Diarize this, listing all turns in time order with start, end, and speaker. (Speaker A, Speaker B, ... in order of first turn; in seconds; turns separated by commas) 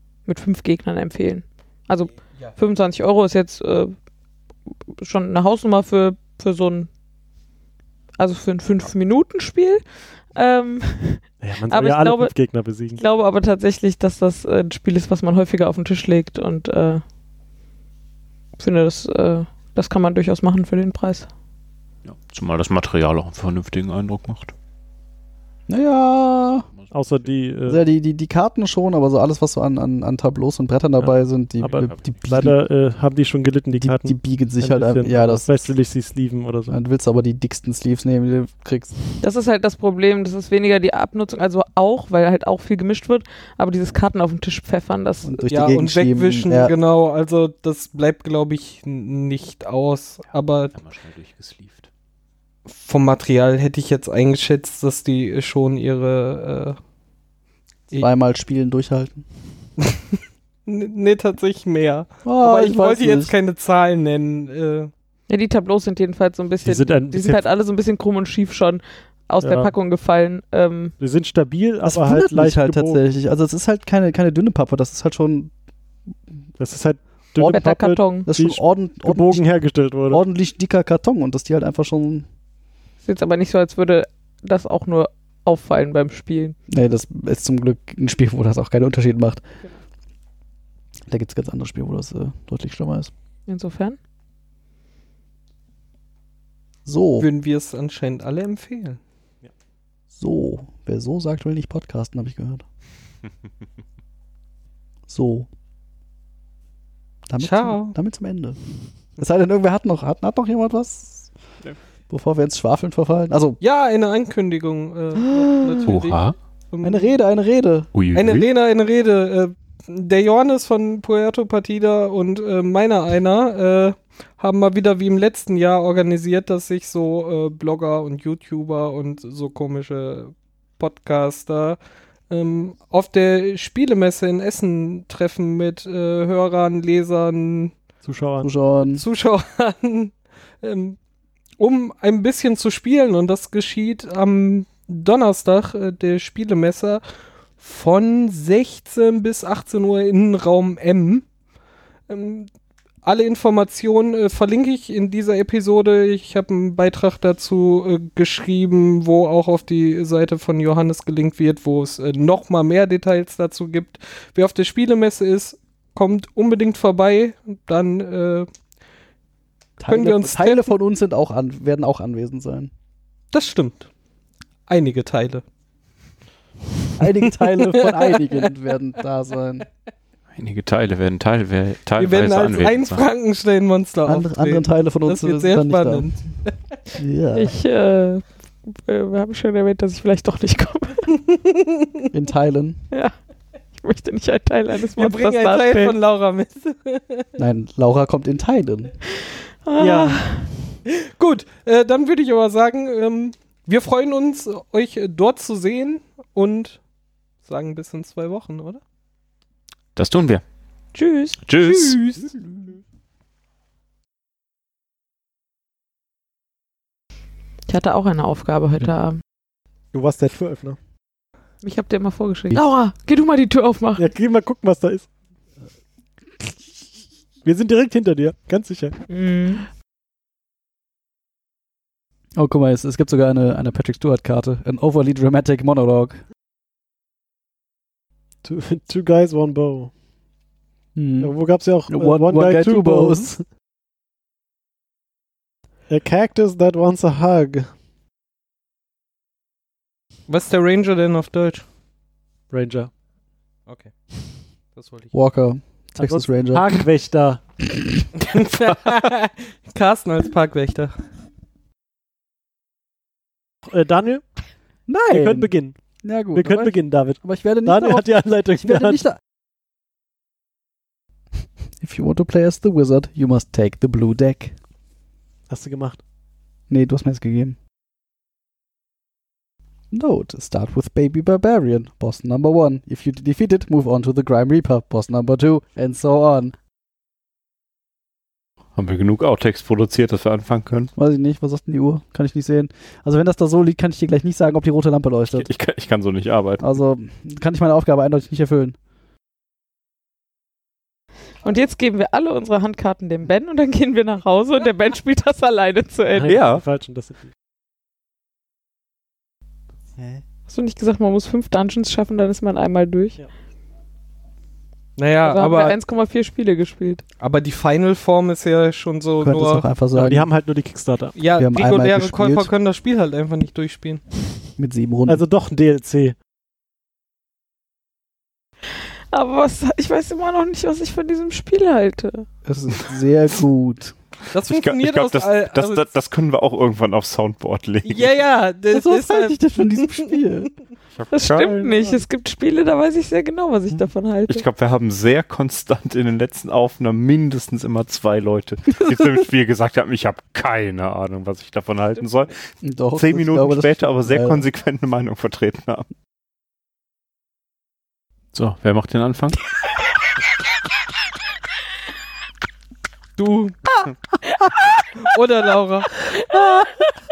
Speaker A: 0.2-3.9, Speaker A: 5.0-6.9, Speaker A: 8.2-12.3, Speaker B: 11.4-13.0, Speaker A: 12.9-17.0, Speaker A: 18.6-21.3, Speaker C: 22.1-24.5, Speaker D: 25.7-26.7, Speaker B: 26.9-27.8, Speaker D: 27.7-32.6, Speaker B: 31.6-36.8, Speaker C: 31.8-32.2, Speaker D: 33.8-35.5, Speaker D: 36.7-39.1, Speaker A: 39.2-45.5, Speaker D: 45.2-46.8, Speaker E: 45.5-50.7, Speaker C: 50.7-51.9, Speaker E: 52.7-56.8, Speaker D: 58.0-59.2, Speaker E: 60.7-64.9, Speaker D: 62.2-63.3, Speaker A: 65.3-71.0, Speaker B: 66.6-67.5, Speaker B: 69.4-69.7, Speaker B: 71.0-73.0, Speaker D: 71.8-75.5, Speaker B: 76.6-80.2, Speaker D: 77.4-79.4, Speaker A: 77.5-78.3, Speaker D: 80.1-82.3, Speaker A: 83.0-86.6, Speaker D: 86.7-89.4, Speaker D: 91.1-93.1, Speaker A: 93.5-94.0, Speaker D: 96.9-97.3, Speaker E: 97.2-99.0, Speaker D: 100.1-102.6, Speaker D: 105.1-105.5, Speaker D: 107.3-108.6, Speaker E: 107.4-108.0, Speaker D: 109.2-111.3, Speaker D: 112.1-113.6, Speaker E: 113.6-117.1, Speaker A: 115.2-115.9, Speaker C: 115.8-116.3, Speaker D: 116.8-117.9, Speaker C: 117.9-118.5, Speaker E: 118.1-131.8, Speaker E: 132.3-137.8, Speaker B: 138.0-138.5, Speaker D: 138.4-139.0, Speaker E: 139.0-141.0, Speaker E: 141.6-147.0, Speaker E: 147.6-151.3, Speaker E: 152.1-152.5, Speaker E: 153.0-168.5, Speaker D: 169.8-172.7, Speaker E: 169.9-170.7, Speaker E: 173.3-173.9, Speaker E: 174.7-175.4, Speaker D: 177.0-179.7, Speaker E: 177.2-178.5, Speaker C: 180.3-183.0, Speaker E: 182.0-186.5, Speaker D: 184.1-186.2, Speaker D: 187.0-187.6, Speaker A: 187.3-191.1, Speaker E: 191.3-191.7, Speaker D: 192.1-192.8, Speaker A: 193.7-196.0, Speaker E: 194.9-197.3, Speaker D: 197.4-199.0, Speaker A: 199.7-200.5, Speaker B: 199.8-200.2, Speaker E: 200.9-206.8, Speaker E: 207.4-208.8, Speaker C: 209.9-210.4, Speaker A: 210.9-211.4, Speaker C: 211.4-212.0, Speaker E: 211.6-212.3, Speaker A: 217.7-219.2, Speaker B: 219.9-220.8, Speaker A: 221.6-224.1, Speaker B: 224.0-225.1, Speaker B: 227.4-229.0, Speaker A: 229.1-229.7, Speaker D: 232.4-236.2, Speaker B: 238.4-239.9, Speaker D: 240.9-243.4, Speaker B: 241.2-243.4, Speaker B: 245.9-247.7, Speaker E: 250.3-251.7, Speaker B: 252.5-252.9, Speaker E: 253.7-253.9, Speaker E: 254.7-255.1, Speaker D: 255.1-256.9, Speaker B: 256.0-257.4, Speaker D: 257.7-258.0, Speaker E: 258.2-260.9, Speaker B: 263.7-264.2, Speaker D: 264.9-269.2, Speaker B: 265.1-265.8, Speaker B: 266.3-269.0, Speaker D: 271.8-274.6, Speaker B: 275.5-276.0, Speaker D: 276.7-277.6, Speaker D: 279.9-286.5, Speaker C: 288.8-290.9, Speaker D: 291.0-295.5, Speaker C: 295.3-296.6, Speaker D: 296.6-298.8, Speaker A: 301.4-306.4, Speaker B: 306.1-307.3, Speaker C: 306.3-306.6, Speaker A: 310.5-313.2, Speaker E: 315.0-315.8, Speaker A: 315.2-317.0, Speaker E: 317.2-319.7, Speaker D: 319.2-320.3, Speaker B: 319.9-321.2, Speaker E: 321.2-324.0, Speaker D: 321.4-322.5, Speaker D: 324.6-325.2, Speaker B: 325.1-326.1, Speaker A: 329.1-332.3, Speaker D: 332.4-333.9, Speaker E: 334.3-335.9, Speaker C: 334.4-338.2, Speaker E: 337.9-340.1, Speaker D: 338.7-340.5, Speaker C: 341.0-341.6, Speaker A: 341.1-344.4, Speaker B: 341.5-342.0, Speaker C: 344.3-352.3, Speaker D: 352.6-354.4, Speaker C: 352.9-355.9, Speaker C: 358.3-359.4, Speaker E: 363.2-363.6, Speaker E: 365.0-365.9